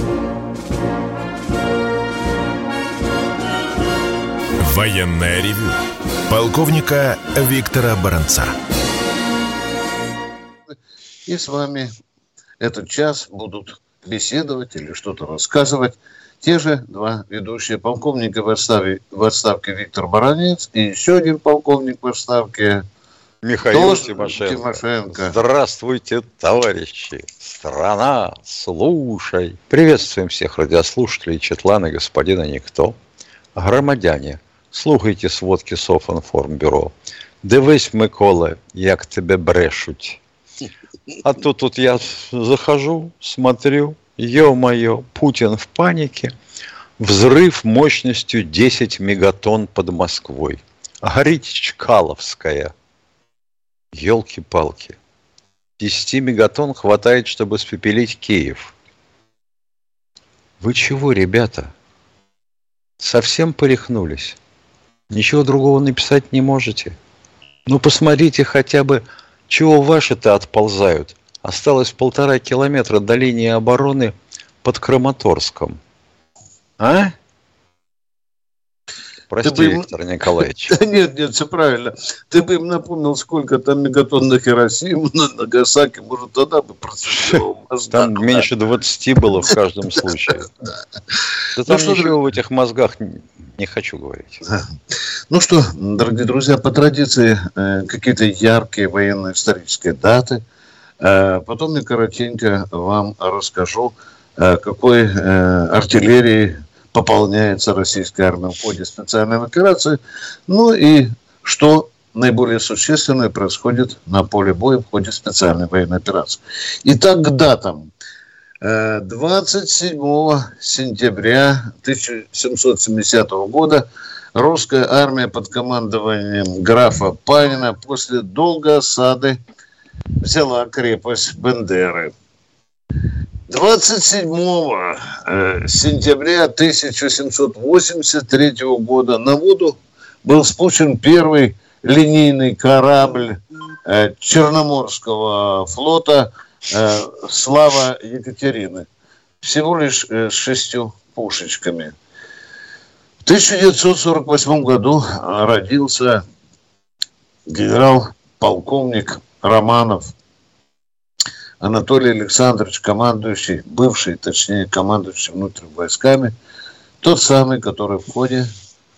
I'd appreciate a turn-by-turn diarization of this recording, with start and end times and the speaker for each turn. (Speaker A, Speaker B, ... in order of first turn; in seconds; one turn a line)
Speaker A: 4.6-8.6
Speaker B: 11.3-11.9
Speaker B: 12.6-22.8
Speaker C: 23.4-33.0
Speaker B: 23.7-25.4
Speaker C: 33.5-40.2
Speaker C: 41.2-46.3
Speaker C: 47.0-52.7
Speaker C: 53.9-55.0
Speaker C: 55.8-58.7
Speaker C: 60.6-61.7
Speaker C: 63.0-64.4
Speaker C: 65.1-67.0
Speaker C: 67.7-75.8
Speaker C: 76.8-77.1
Speaker C: 79.3-80.8
Speaker B: 79.4-79.9
Speaker B: 80.7-88.5
Speaker C: 87.0-90.5
Speaker C: 91.6-94.4
Speaker B: 91.7-92.2
Speaker B: 95.3-100.4
Speaker B: 101.0-117.9
Speaker B: 118.6-129.4
Speaker B: 130.2-132.1
Speaker B: 133.5-148.8
Speaker B: 149.4-151.9
Speaker B: 153.2-156.2
Speaker B: 157.5-160.1
Speaker B: 161.6-166.3
Speaker B: 167.0-168.5